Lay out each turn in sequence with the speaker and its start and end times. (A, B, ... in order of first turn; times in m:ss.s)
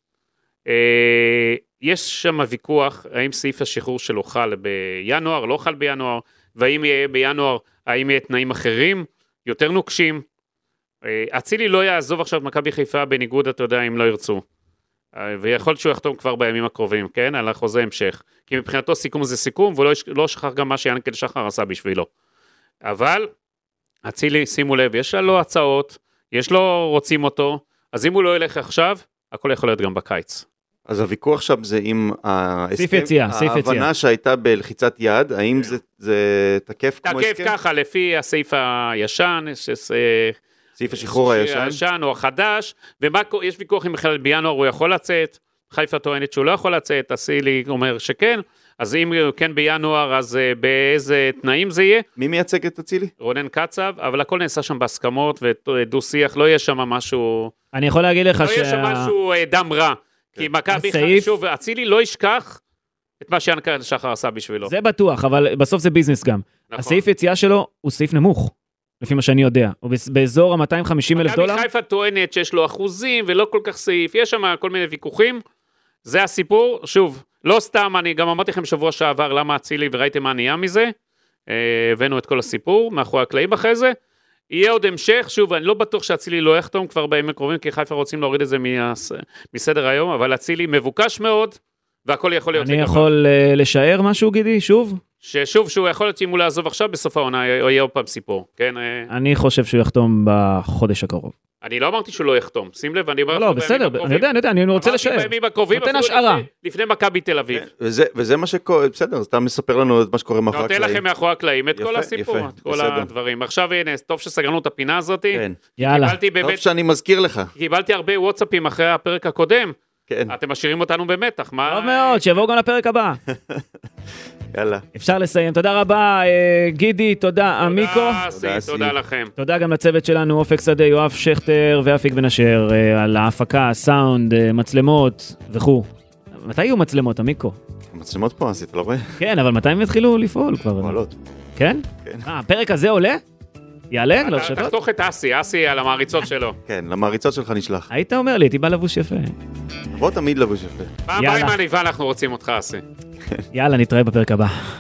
0:00.7-0:10.2 A
0:11.0-0:14.4 A
0:15.2-0:22.1 A
0:22.8-0:23.3 A
0:24.0-0:30.4 A
0:30.9-0:37.5 B
0:32.8-0:33.9 C
0:37.0-0:40.4 A
0:40.8-0:41.8 B
0:40.9-0:52.0 A
0:52.2-0:53.1 B
0:53.2-0:57.5 A
0:57.7-0:59.1 C
0:58.4-1:02.6 A
1:00.7-1:01.4 C
1:03.2-1:04.7 A
1:04.7-1:11.7 C
1:06.7-1:07.0 A
1:11.2-1:15.4 A
1:16.0-1:20.9 A
1:21.5-1:24.0 A
1:24.5-1:33.1 A
1:32.6-1:35.0 C
1:35.2-1:39.1 A
1:39.1-1:41.3 C
1:41.6-1:47.7 A
1:43.3-1:46.5 C
1:47.5-1:51.0 B
1:50.5-1:56.6 A
1:51.8-1:53.1 B
1:55.3-1:55.6 B
1:55.8-1:56.2 C
1:56.4-1:57.5 B
1:57.6-1:59.8 A
2:00.1-2:00.4 B
2:00.3-2:02.4 A
2:01.7-2:03.2 C
2:03.3-2:03.7 B
2:04.5-2:04.8 B
2:05.0-2:08.2 C
2:07.6-2:09.3 A
2:08.3-2:09.0 B
2:09.4-2:17.6 C
2:17.9-2:19.2 B
2:19.2-2:21.0 C
2:20.8-2:21.1 B
2:21.6-2:23.2 C
2:23.9-2:24.8 C
2:24.2-2:26.6 A
2:26.7-2:27.9 B
2:27.9-2:29.3 C
2:29.9-2:30.9 B
2:31.1-2:32.8 A
2:31.2-2:31.6 C
2:33.5-2:34.7 C